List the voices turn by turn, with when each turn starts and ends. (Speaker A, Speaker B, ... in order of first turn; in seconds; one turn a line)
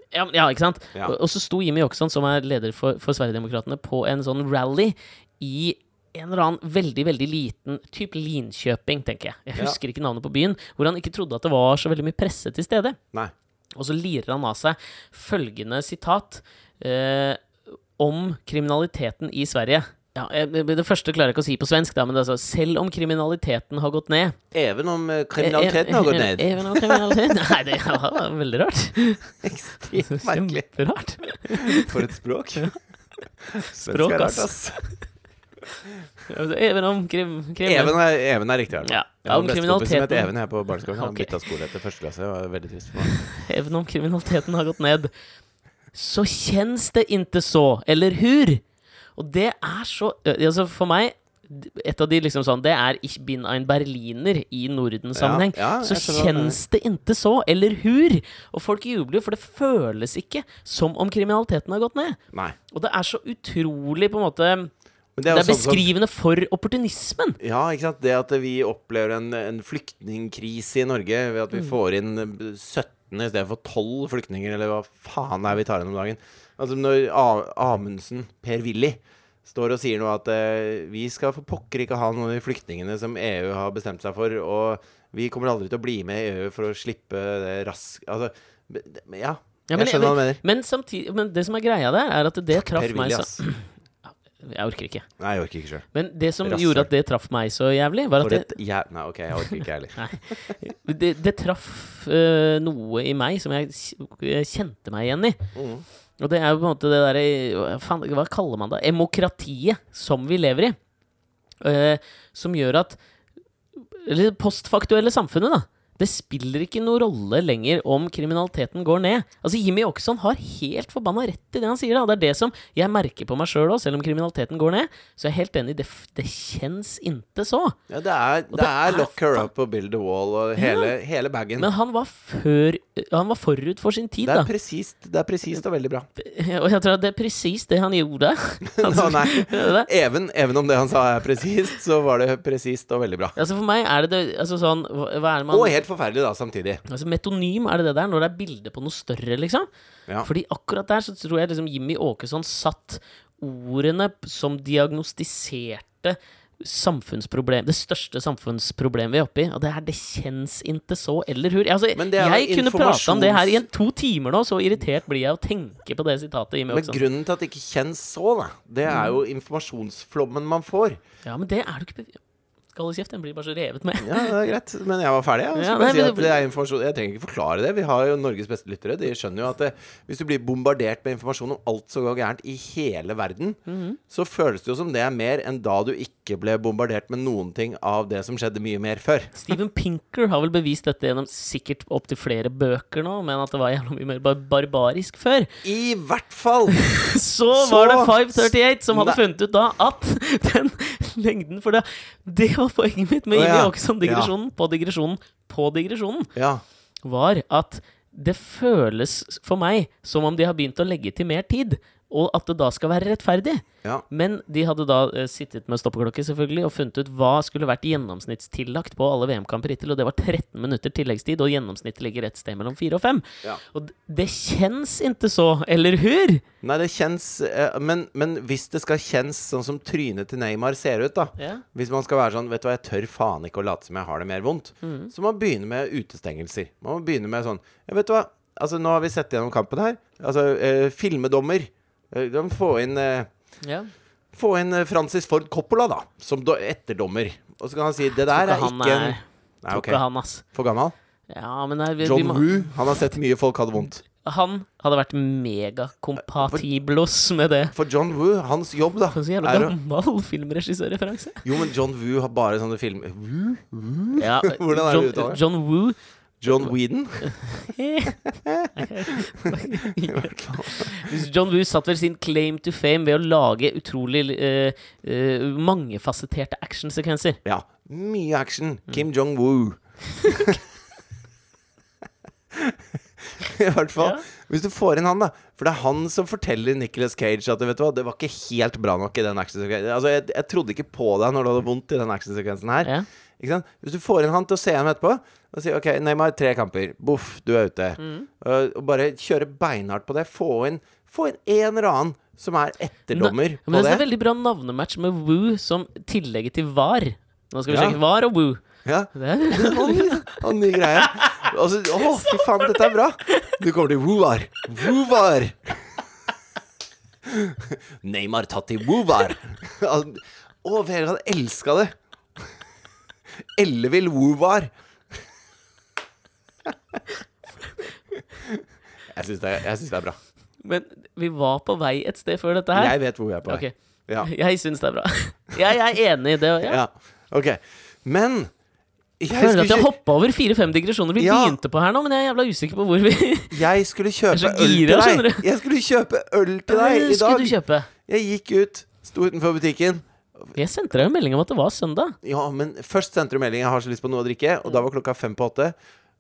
Speaker A: 0.1-13.0
Speaker A: 13.8-17.4
Speaker A: 18.0-24.4
Speaker B: 24.5-27.3
Speaker A: 25.4-29.4
Speaker B: 29.4-30.6
Speaker A: 29.9-32.0
Speaker B: 31.5-32.7
Speaker B: 33.5-34.8
Speaker A: 33.6-34.9
Speaker A: 36.3-38.0
Speaker B: 37.6-43.1
Speaker A: 38.8-41.4
Speaker A: 43.1-45.1
Speaker A: 45.9-48.6
Speaker A: 49.1-62.2
Speaker B: 55.1-56.6
Speaker A: 62.7-64.7
Speaker B: 65.2-65.9
Speaker A: 65.3-67.4
Speaker B: 67.4-90.4
Speaker A: 89.7-93.7
Speaker B: 92.5-93.4
Speaker A: 94.4-95.1
Speaker B: 95.2-95.8
Speaker A: 95.9-98.5
Speaker B: 96.4-96.9
Speaker B: 98.2-100.5
Speaker A: 99.4-105.4
Speaker B: 105.5-105.8
Speaker A: 106.2-110.8
Speaker A: 111.6-113.0
Speaker A: 113.8-127.8
Speaker B: 127.9-131.7
Speaker A: 128.5-129.5
Speaker A: 130.6-130.9
Speaker A: 131.6-134.5
Speaker B: 134.2-136.1
Speaker A: 136.2-139.9
Speaker B: 138.7-143.3
Speaker A: 143.3-145.8
Speaker B: 145.5-146.8
Speaker A: 146.9-149.7
Speaker A: 150.2-167.0
Speaker B: 161.9-163.7
Speaker B: 166.7-171.0
Speaker A: 168.9-169.1
Speaker A: 171.2-172.2
Speaker A: 172.7-174.3
Speaker B: 174.0-189.4
Speaker A: 175.5-176.3
Speaker A: 183.7-184.0
Speaker A: 189.3-195.5
Speaker B: 195.6-196.8
Speaker A: 196.7-206.3
Speaker B: 197.5-199.2
Speaker B: 203.3-204.3
Speaker B: 206.3-206.6
Speaker A: 207.0-226.4
Speaker B: 226.6-243.3
Speaker A: 231.4-231.6
Speaker A: 234.8-235.1
Speaker A: 243.6-243.9
Speaker B: 244.3-250.9
Speaker A: 248.3-250.4
Speaker A: 251.3-253.0
Speaker B: 252.0-254.0
Speaker A: 254.2-257.7
Speaker B: 256.3-256.6
Speaker B: 257.7-259.7
Speaker A: 259.1-261.5
Speaker B: 261.4-265.4
Speaker A: 264.2-266.0
Speaker B: 266.4-267.4
Speaker A: 267.2-277.4
Speaker B: 268.2-271.2
Speaker B: 277.4-280.6
Speaker A: 280.2-280.5
Speaker B: 282.5-304.0
Speaker A: 284.0-284.2
Speaker A: 298.0-298.3
Speaker A: 303.1-310.4
Speaker B: 307.7-308.0
Speaker B: 308.8-316.0
Speaker A: 310.9-313.6
Speaker B: 317.2-321.9
Speaker B: 323.6-324.7
Speaker B: 328.4-330.2
Speaker A: 330.6-336.8
Speaker B: 332.7-334.3
Speaker B: 336.6-338.5
Speaker B: 339.2-339.9
Speaker A: 339.3-343.6
Speaker B: 341.2-341.6
Speaker B: 343.5-350.5
Speaker A: 344.3-345.5
Speaker A: 346.7-347.9
Speaker A: 350.5-352.1
Speaker B: 352.2-355.7